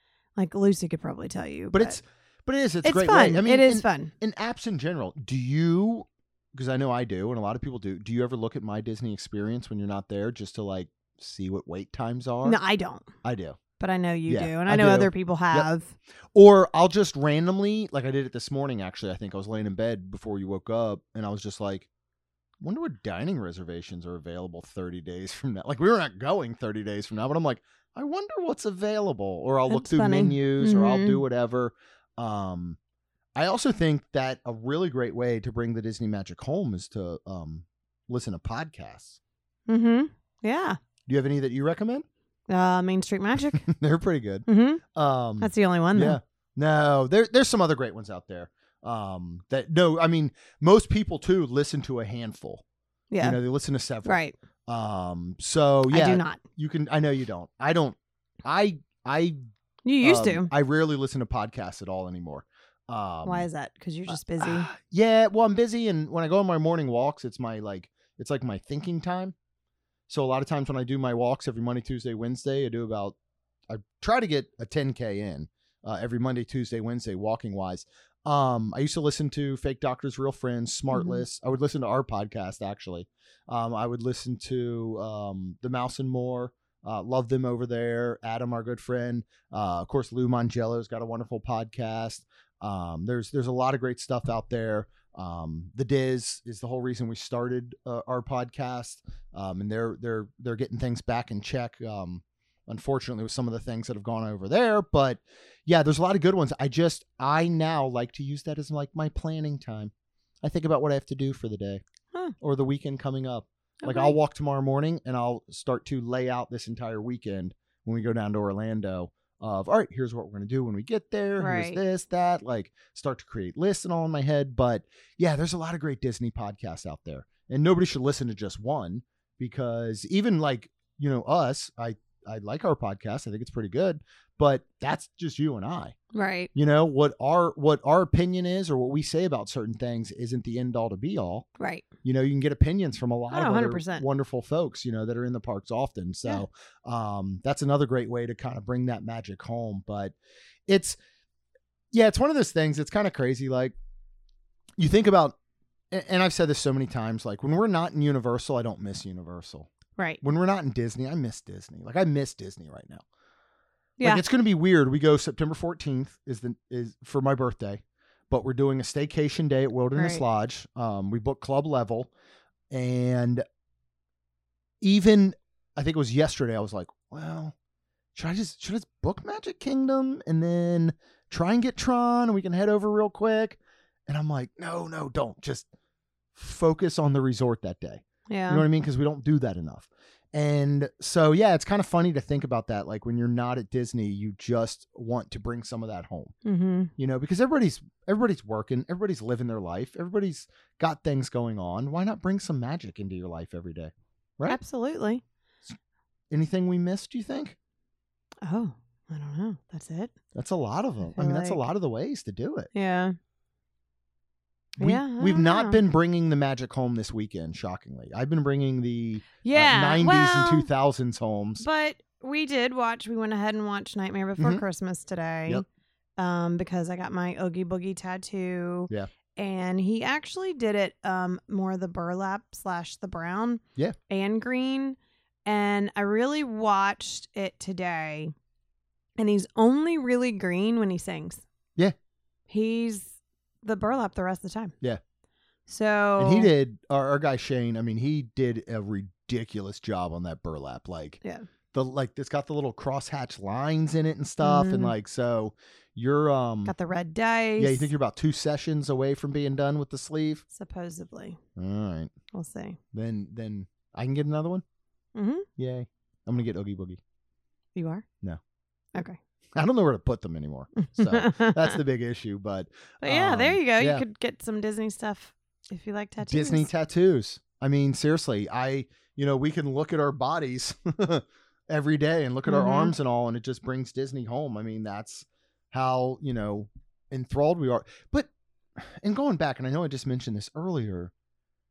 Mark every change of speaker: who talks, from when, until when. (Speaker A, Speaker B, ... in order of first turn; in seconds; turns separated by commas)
Speaker A: 0.3-2.0, Speaker B: 1.7-12.6, Speaker A: 2.8-4.1, Speaker A: 12.4-13.1, Speaker B: 13.2-13.6, Speaker A: 13.8-15.9, Speaker B: 14.3-15.7, Speaker B: 16.3-21.9, Speaker B: 22.6-32.8, Speaker A: 29.7-31.2, Speaker B: 33.4-39.2, Speaker A: 39.7-40.8, Speaker B: 41.1-42.0, Speaker A: 42.5-43.6, Speaker B: 43.5-52.6, Speaker A: 44.5-44.8, Speaker A: 45.4-46.2, Speaker A: 53.1-53.4, Speaker B: 53.2-59.4, Speaker A: 54.0-54.3, Speaker A: 55.9-56.4, Speaker A: 59.8-60.5, Speaker B: 60.0-63.5, Speaker A: 63.2-64.7, Speaker B: 64.1-69.3, Speaker B: 70.1-73.2, Speaker B: 73.7-109.9, Speaker A: 80.9-81.2, Speaker B: 110.4-111.8, Speaker B: 112.4-135.9, Speaker A: 113.8-114.1, Speaker A: 121.4-121.8, Speaker A: 136.1-136.5, Speaker B: 136.5-141.5, Speaker A: 141.6-141.9, Speaker B: 142.0-150.1, Speaker A: 143.3-144.1, Speaker B: 150.7-151.0, Speaker B: 151.9-153.7, Speaker B: 154.8-155.3, Speaker B: 155.9-163.0, Speaker A: 164.0-164.2, Speaker B: 164.0-172.1, Speaker A: 169.9-170.2, Speaker B: 172.7-173.4, Speaker B: 174.8-177.5, Speaker B: 178.1-185.7, Speaker B: 186.3-196.3, Speaker A: 188.3-188.6, Speaker A: 196.4-196.9, Speaker B: 197.0-204.6, Speaker A: 204.4-205.2, Speaker B: 206.3-207.6, Speaker A: 208.4-210.1, Speaker B: 210.3-212.7, Speaker A: 211.1-211.6, Speaker A: 212.7-213.2, Speaker A: 214.8-215.8, Speaker B: 214.8-221.6, Speaker A: 219.4-220.7, Speaker A: 221.6-225.6, Speaker B: 224.4-224.6, Speaker A: 226.2-238.3, Speaker A: 239.2-241.4, Speaker A: 242.5-244.7, Speaker A: 245.7-246.5, Speaker B: 246.2-251.2, Speaker B: 251.7-256.7, Speaker A: 254.4-254.9, Speaker A: 256.6-257.9, Speaker B: 257.6-260.4, Speaker A: 260.5-261.4, Speaker B: 261.6-262.1, Speaker A: 262.3-262.8, Speaker B: 262.9-264.6, Speaker A: 265.1-265.5, Speaker B: 265.6-267.0, Speaker A: 267.7-268.1, Speaker B: 269.6-274.0, Speaker A: 270.9-271.8, Speaker A: 273.0-276.7, Speaker B: 276.2-291.1, Speaker A: 282.5-282.9